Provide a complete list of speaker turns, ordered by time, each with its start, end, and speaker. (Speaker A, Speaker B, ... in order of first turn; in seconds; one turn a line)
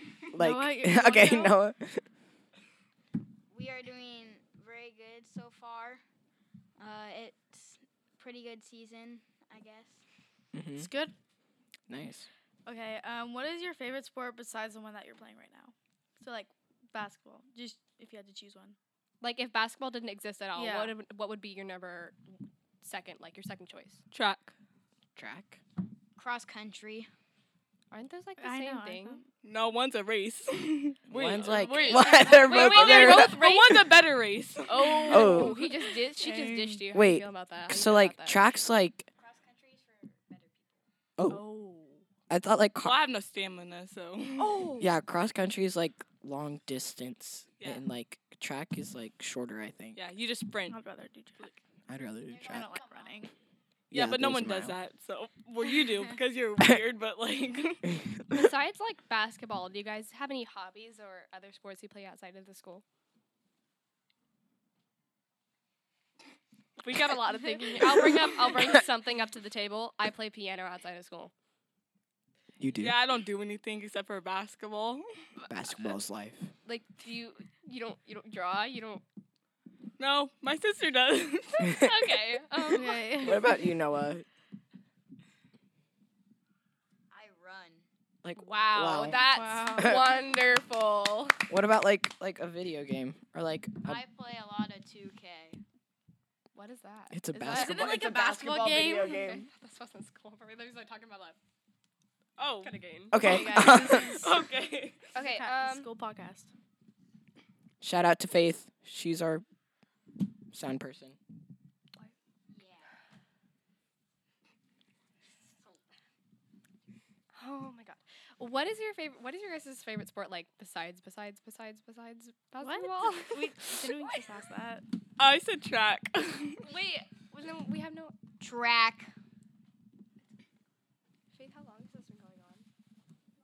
Speaker A: 0.3-2.0
Speaker B: 0.4-1.6
Speaker C: 3.5-6.0
Speaker C: 6.8-10.0
Speaker A: 10.5-10.9
Speaker B: 10.8-11.1
Speaker A: 11.9-12.3
Speaker B: 12.7-18.8
Speaker D: 19.2-22.2
Speaker B: 20.6-20.9
Speaker D: 22.8-24.0
Speaker E: 24.1-24.5
Speaker A: 25.2-25.6
Speaker C: 26.2-27.1
Speaker D: 27.9-29.2
Speaker B: 28.4-29.3
Speaker E: 29.4-35.4
Speaker A: 31.1-33.7
Speaker D: 31.8-33.8
Speaker B: 34.7-36.8
Speaker D: 35.0-38.6
Speaker A: 35.0-35.6
Speaker E: 36.2-36.6
Speaker A: 36.9-39.1
Speaker C: 39.2-40.8
Speaker A: 41.2-41.4
Speaker B: 41.3-42.0
Speaker A: 42.3-43.0
Speaker E: 42.8-44.5
Speaker B: 44.4-44.9
Speaker A: 44.8-50.0
Speaker E: 47.6-47.8
Speaker E: 50.0-50.8
Speaker B: 50.7-51.6
Speaker A: 51.9-52.7
Speaker C: 52.3-53.3
Speaker B: 52.5-53.3
Speaker A: 53.9-54.8
Speaker E: 53.9-57.9
Speaker D: 58.3-62.8
Speaker D: 66.8-71.3
Speaker A: 72.6-73.0
Speaker E: 72.8-75.1
Speaker A: 75.5-76.5
Speaker D: 76.7-79.0
Speaker E: 80.0-81.8
Speaker D: 81.7-83.1
Speaker B: 82.7-83.7
Speaker A: 83.2-84.3
Speaker C: 87.1-87.8
Speaker A: 88.2-89.2
Speaker D: 88.4-91.4
Speaker B: 89.1-90.0
Speaker A: 91.5-94.0
Speaker C: 93.8-95.6
Speaker D: 96.5-101.4
Speaker A: 97.1-98.4
Speaker B: 97.5-99.5
Speaker E: 102.4-102.8
Speaker D: 102.6-103.9
Speaker A: 103.1-104.3
Speaker B: 103.2-104.3
Speaker E: 103.9-105.1
Speaker D: 105.1-105.9
Speaker B: 105.1-106.5
Speaker A: 107.8-109.4
Speaker A: 110.5-111.2
Speaker C: 112.5-112.9
Speaker D: 117.3-124.2
Speaker B: 122.6-124.8
Speaker E: 125.2-126.6
Speaker D: 126.6-128.2
Speaker C: 128.4-129.1
Speaker D: 131.3-132.7